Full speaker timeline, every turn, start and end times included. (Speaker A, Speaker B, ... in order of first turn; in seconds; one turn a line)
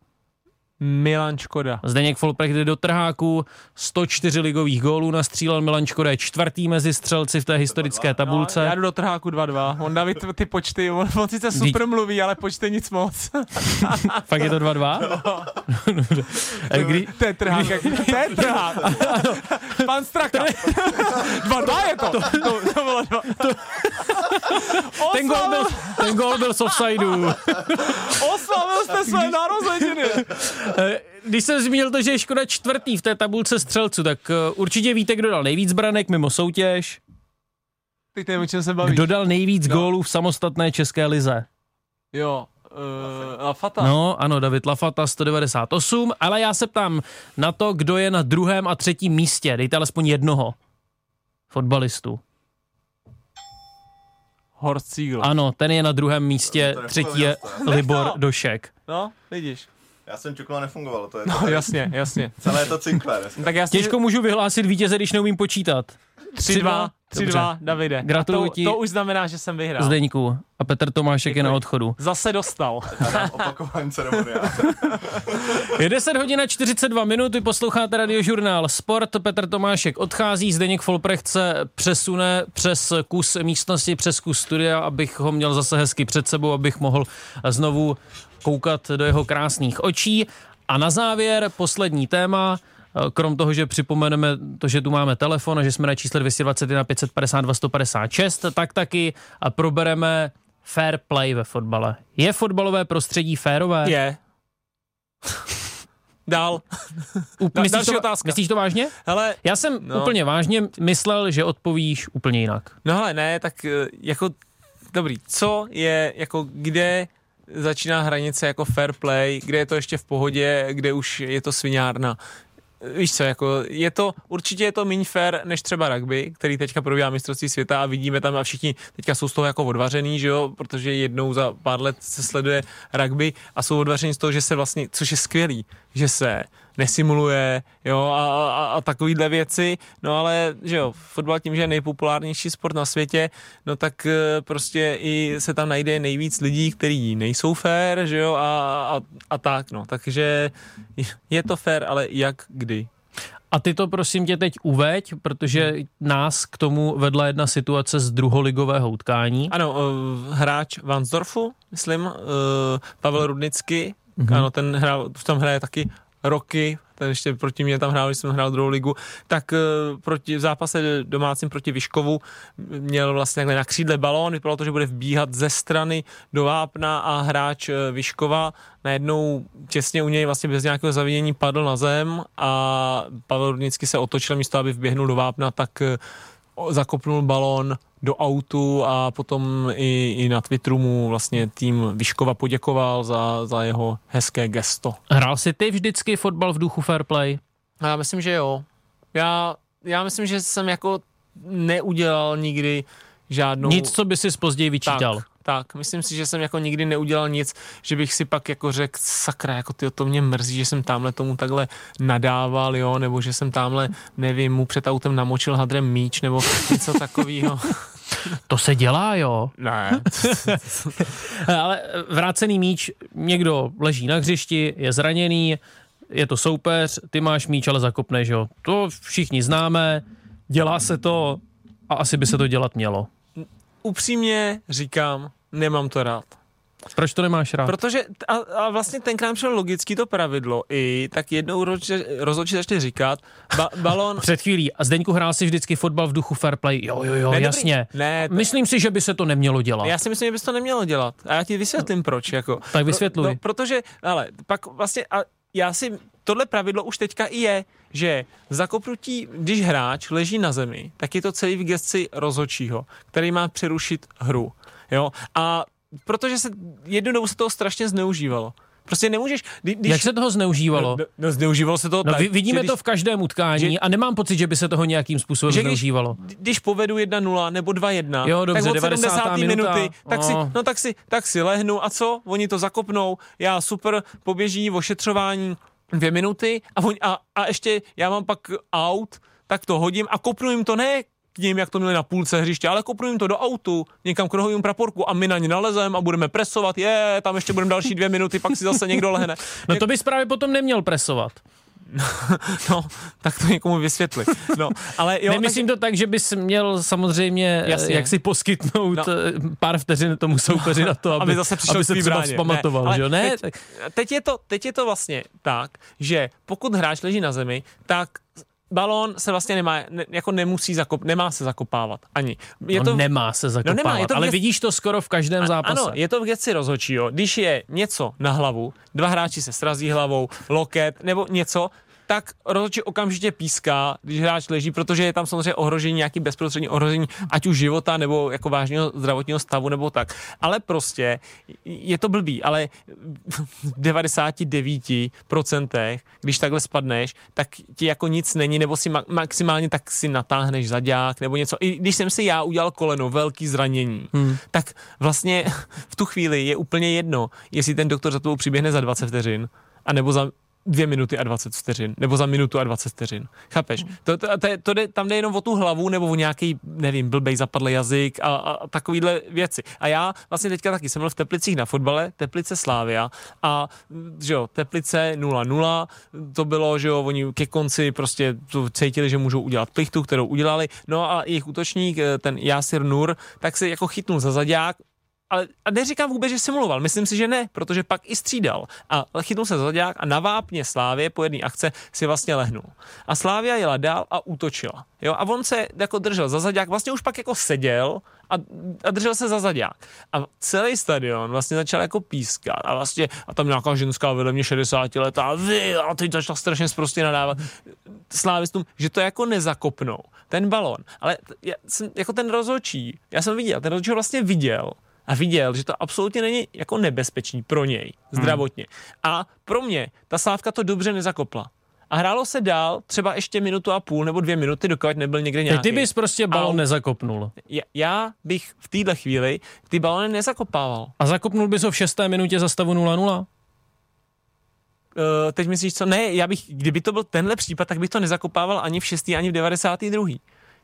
Speaker A: 0.8-1.8
Speaker B: 1.8-8.7
Speaker C: 7.7-8.2
Speaker A: 8.2-14.2
Speaker B: 14.2-21.3
Speaker A: 15.0-15.5
Speaker A: 16.7-30.3
Speaker B: 22.0-22.5
Speaker B: 23.4-28.1
Speaker B: 30.2-37.0
Speaker A: 38.1-39.9
Speaker B: 38.8-41.5
Speaker A: 42.1-43.9
Speaker B: 43.8-50.5
Speaker B: 51.5-52.2
Speaker A: 54.6-55.3
Speaker B: 55.2-58.7
Speaker C: 56.5-57.7
Speaker A: 57.5-58.2
Speaker A: 58.9-59.7
Speaker C: 60.0-61.9
Speaker A: 61.2-62.5
Speaker C: 62.4-63.6
Speaker A: 63.4-64.0
Speaker B: 63.7-68.8
Speaker A: 66.4-70.0
Speaker B: 69.8-72.0
Speaker A: 71.2-73.5
Speaker C: 72.9-75.2
Speaker A: 74.4-75.2
Speaker B: 75.7-103.9
Speaker A: 103.8-104.2
Speaker A: 106.2-108.4
Speaker B: 107.4-112.7
Speaker A: 108.9-110.2
Speaker A: 112.8-114.3
Speaker A: 114.9-122.2
Speaker A: 122.8-152.9
Speaker B: 153.5-159.5
Speaker A: 159.5-186.0
Speaker B: 164.2-164.5
Speaker A: 186.6-195.0
Speaker B: 195.1-197.4
Speaker A: 197.8-203.9
Speaker B: 203.6-205.2
Speaker A: 204.8-218.4
Speaker B: 218.5-219.5
Speaker A: 219.6-220.9
Speaker B: 220.2-225.6
Speaker B: 226.1-233.1
Speaker A: 233.4-236.4
Speaker B: 236.9-237.8
Speaker A: 237.7-244.2
Speaker B: 244.2-249.9
Speaker A: 247.3-248.5
Speaker A: 249.8-270.1
Speaker B: 252.7-253.4
Speaker B: 269.9-271.0
Speaker A: 270.7-272.8
Speaker B: 272.0-276.2
Speaker A: 275.5-299.9
Speaker B: 278.2-280.5
Speaker B: 299.7-301.4
Speaker A: 301.9-305.6
Speaker B: 305.3-313.6
Speaker A: 307.6-308.1
Speaker A: 310.6-323.1
Speaker B: 322.7-326.0
Speaker A: 323.6-324.4
Speaker A: 325.4-426.6
Speaker B: 354.1-354.4
Speaker B: 418.1-418.4
Speaker B: 425.5-427.3
Speaker A: 427.4-430.9
Speaker B: 431.0-433.3
Speaker A: 434.9-440.2